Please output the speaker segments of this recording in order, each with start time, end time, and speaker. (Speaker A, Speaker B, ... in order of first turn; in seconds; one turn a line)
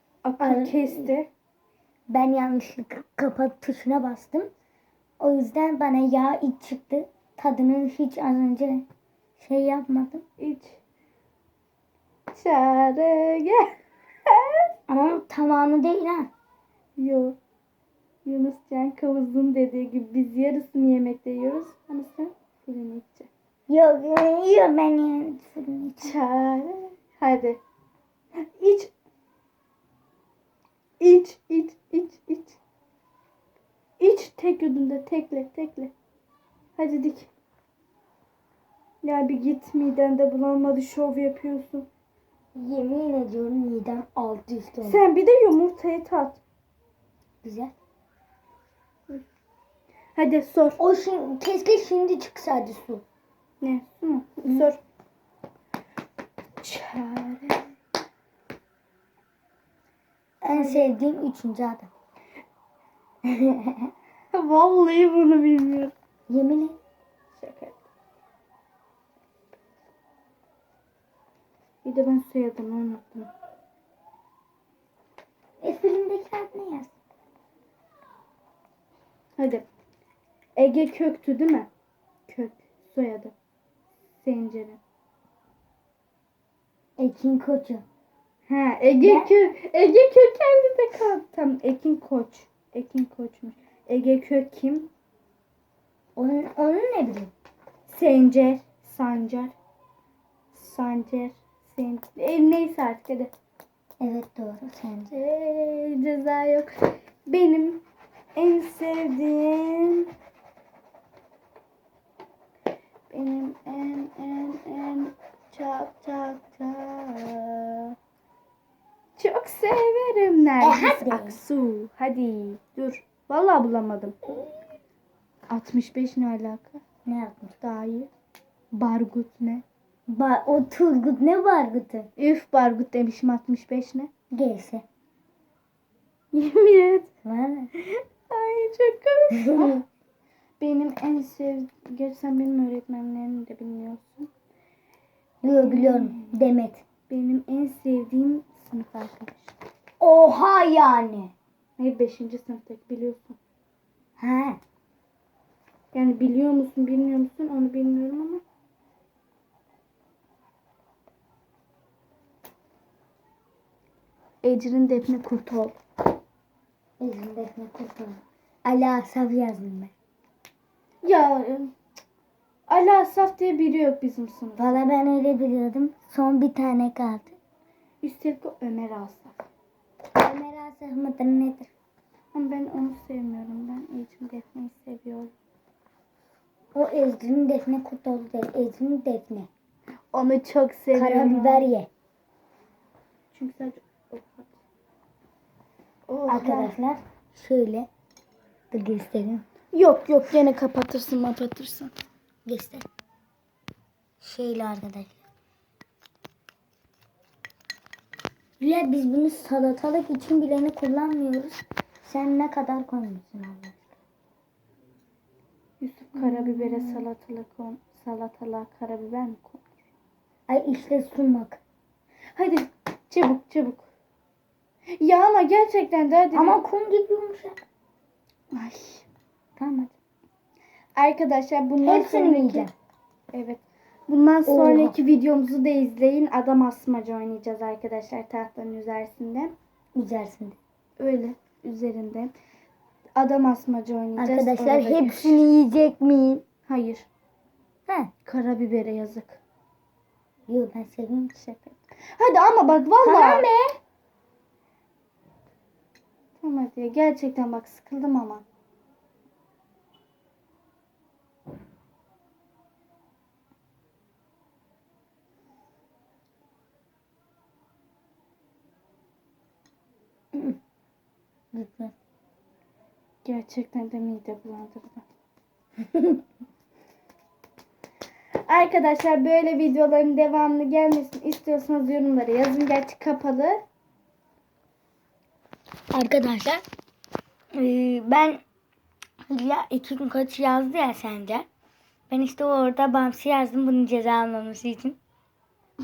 Speaker A: 0.2-1.3
Speaker B: 0.4-1.1
Speaker B: 2.1-4.5
Speaker B: 5.2-8.9
Speaker B: 9.4-10.2
Speaker A: 10.4-10.8
Speaker A: 12.3-13.8
Speaker A: 14.3-14.7
Speaker B: 14.9-16.3
Speaker A: 17.0-17.4
Speaker A: 18.2-23.3
Speaker B: 23.7-26.1
Speaker A: 26.0-27.6
Speaker A: 28.4-28.9
Speaker A: 31.0-32.6
Speaker A: 34.0-35.9
Speaker A: 36.8-37.3
Speaker A: 39.0-41.9
Speaker B: 42.5-45.0
Speaker A: 44.9-46.4
Speaker B: 47.4-47.8
Speaker A: 50.2-50.8
Speaker B: 50.8-53.0
Speaker A: 53.6-54.8
Speaker A: 56.6-57.6
Speaker B: 60.4-61.9
Speaker A: 60.5-60.9
Speaker B: 63.2-63.9
Speaker A: 64.3-65.9
Speaker B: 66.3-66.8
Speaker A: 67.3-67.8
Speaker A: 71.8-73.3
Speaker B: 75.6-76.9
Speaker A: 79.4-79.7
Speaker A: 80.6-81.7
Speaker A: 82.3-83.3
Speaker A: 84.2-84.8
Speaker B: 87.0-87.8
Speaker A: 88.5-94.9
Speaker B: 89.0-89.3
Speaker B: 96.2-97.3
Speaker A: 97.9-99.5
Speaker A: 100.5-103.3
Speaker B: 104.0-105.1
Speaker A: 105.1-107.8
Speaker A: 108.4-110.1
Speaker A: 113.1-118.0
Speaker A: 119.2-124.2
Speaker B: 120.6-121.4
Speaker A: 125.5-126.8
Speaker B: 127.0-127.5
Speaker A: 127.6-128.1
Speaker A: 128.7-129.6
Speaker B: 130.1-132.1
Speaker A: 132.2-134.1
Speaker B: 134.3-134.8
Speaker A: 136.3-137.1
Speaker B: 137.2-137.7
Speaker A: 137.8-139.8
Speaker B: 139.3-139.8
Speaker A: 140.6-144.3
Speaker B: 145.4-146.8
Speaker A: 145.6-146.3
Speaker A: 147.1-149.5
Speaker B: 150.0-151.3
Speaker A: 151.8-153.4
Speaker B: 154.2-154.6
Speaker A: 155.9-158.4
Speaker A: 164.4-165.8
Speaker B: 167.0-169.9
Speaker A: 171.0-171.7
Speaker A: 172.7-174.8
Speaker B: 174.6-177.4
Speaker A: 178.0-179.4
Speaker B: 180.2-181.7
Speaker A: 182.3-185.3
Speaker B: 186.7-189.5
Speaker A: 190.1-191.6
Speaker B: 190.9-191.9
Speaker A: 193.3-194.6
Speaker A: 196.1-196.7
Speaker B: 196.3-197.9
Speaker B: 198.7-199.4
Speaker A: 199.7-201.9
Speaker B: 202.5-202.9
Speaker B: 204.2-205.2
Speaker B: 208.6-214.0
Speaker A: 215.8-219.7
Speaker B: 216.2-217.1
Speaker B: 220.5-221.6
Speaker A: 222.4-223.9
Speaker A: 225.0-226.6
Speaker B: 226.3-227.6
Speaker A: 228.5-229.1
Speaker B: 229.6-229.9
Speaker A: 231.0-232.7
Speaker B: 231.8-232.7
Speaker A: 233.3-239.5
Speaker B: 234.5-235.0
Speaker B: 239.9-240.6
Speaker A: 241.0-242.3
Speaker A: 243.2-245.5
Speaker B: 244.2-246.4
Speaker A: 246.7-247.1
Speaker A: 248.2-249.4
Speaker B: 250.5-251.3
Speaker A: 251.3-253.5
Speaker B: 253.0-253.8
Speaker A: 256.4-258.4
Speaker B: 270.3-270.6
Speaker B: 271.5-271.9
Speaker A: 273.2-275.1
Speaker B: 275.8-276.2
Speaker A: 278.5-283.6
Speaker B: 285.9-286.6
Speaker B: 287.6-288.4
Speaker B: 289.3-291.5
Speaker B: 292.1-295.0